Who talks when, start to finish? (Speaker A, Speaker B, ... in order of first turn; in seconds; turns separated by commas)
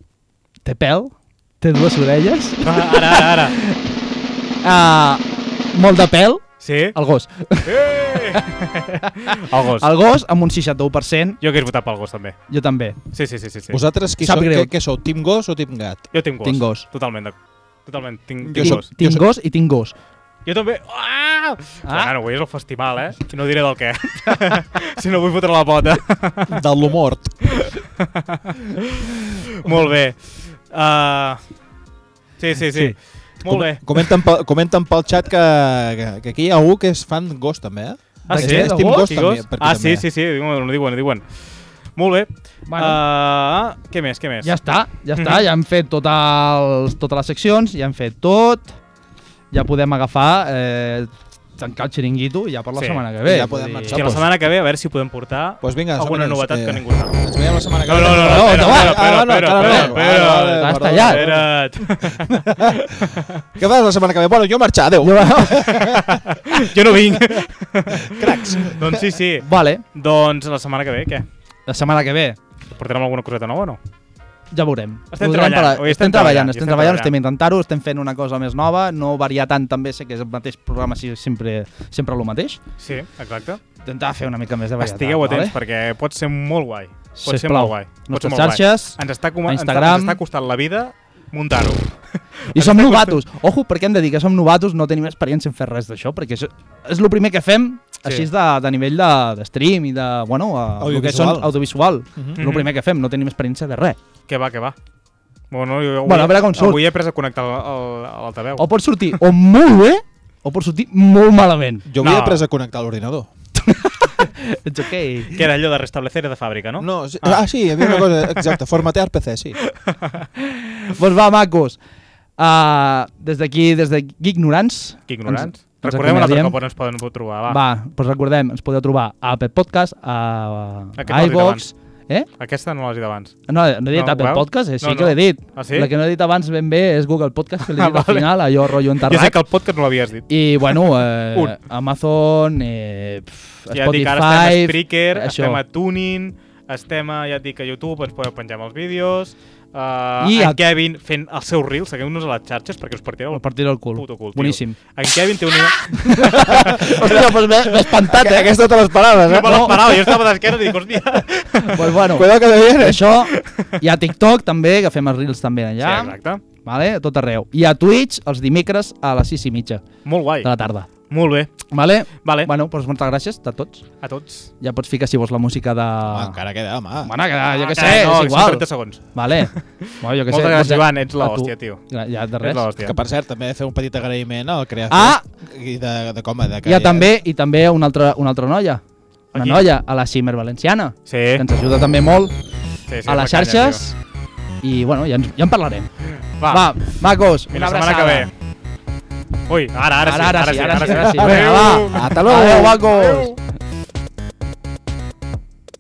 Speaker A: 0.6-3.8, Speaker B: 2.6-3.5, Speaker A: 4.6-8.4, Speaker B: 6.6-7.0, Speaker B: 7.6-9.9, Speaker A: 9.0-11.4, Speaker B: 11.4-12.4, Speaker A: 12.5-13.0, Speaker B: 13.1-13.8, Speaker C: 13.7-16.1, Speaker A: 14.2-14.7, Speaker B: 16.1-18.9, Speaker A: 16.4-16.9, Speaker C: 18.4-19.2, Speaker A: 18.6-19.9, Speaker B: 20.4-26.6, Speaker A: 21.8-22.1, Speaker C: 26.5-27.5, Speaker B: 27.6-31.4, Speaker B: 32.4-33.8, Speaker A: 32.7-32.9, Speaker C: 33.5-40.0, Speaker A: 33.5-34.0, Speaker B: 38.3-41.4, Speaker A: 38.3-39.1, Speaker B: 41.9-44.5, Speaker A: 42.7-43.0, Speaker A: 44.4-48.7, Speaker B: 45.1-45.4, Speaker A: 49.5-54.2, Speaker B: 52.7-53.0, Speaker C: 53.2-54.3, Speaker B: 53.9-57.3, Speaker C: 55.6-66.2, Speaker B: 57.8-63.4, Speaker A: 58.2-61.3, Speaker A: 65.0-65.8, Speaker B: 65.7-71.3, Speaker C: 68.0-69.0, Speaker A: 69.4-69.8, Speaker A: 71.7-72.4, Speaker B: 72.7-73.8, Speaker A: 74.5-82.6, Speaker B: 75.1-77.1, Speaker B: 82.8-83.6, Speaker A: 83.8-85.5, Speaker B: 84.8-93.2, Speaker A: 87.1-90.2, Speaker A: 92.5-104.0, Speaker B: 98.0-98.3, Speaker C: 100.8-101.5, Speaker B: 102.4-102.7, Speaker B: 104.3-104.8, Speaker B: 105.5-108.7, Speaker A: 106.0-106.8, Speaker A: 108.6-111.9, Speaker C: 111.9-113.3, Speaker B: 112.0-112.5, Speaker A: 113.6-115.4, Speaker B: 115.3-118.5, Speaker C: 116.8-119.6, Speaker B: 119.7-120.3, Speaker A: 120.5-121.8, Speaker A: 122.4-126.6, Speaker B: 125.1-127.6, Speaker A: 127.5-132.3, Speaker B: 131.0-131.7, Speaker B: 132.4-133.4, Speaker A: 133.5-139.4, Speaker B: 133.9-135.9, Speaker B: 137.6-141.6, Speaker A: 140.3-145.6, Speaker B: 143.7-156.9, Speaker A: 150.2-150.6, Speaker A: 153.3-154.8, Speaker A: 155.9-158.5, Speaker C: 156.5-160.3, Speaker B: 159.2-162.0, Speaker A: 159.4-160.0, Speaker A: 161.7-169.8, Speaker C: 162.0-163.2, Speaker B: 163.3-163.7, Speaker B: 165.8-166.4, Speaker B: 170.0-170.5, Speaker A: 170.4-170.9, Speaker B: 171.0-171.5, Speaker A: 171.7-173.8, Speaker B: 172.2-172.5, Speaker B: 174.0-174.5, Speaker A: 174.6-176.4, Speaker C: 176.1-177.1, Speaker A: 177.0-182.7, Speaker B: 177.4-181.8, Speaker B: 182.4-183.0, Speaker C: 182.8-187.1, Speaker A: 184.9-185.2, Speaker A: 186.6-188.8, Speaker B: 189.3-189.7, Speaker A: 189.3-192.3, Speaker B: 191.1-191.4, Speaker B: 192.9-193.8, Speaker A: 193.0-193.9, Speaker A: 194.6-195.9, Speaker B: 196.2-196.8, Speaker A: 196.4-198.3, Speaker B: 197.5-198.3, Speaker B: 199.5-203.3, Speaker A: 200.0-203.3, Speaker C: 201.2-203.3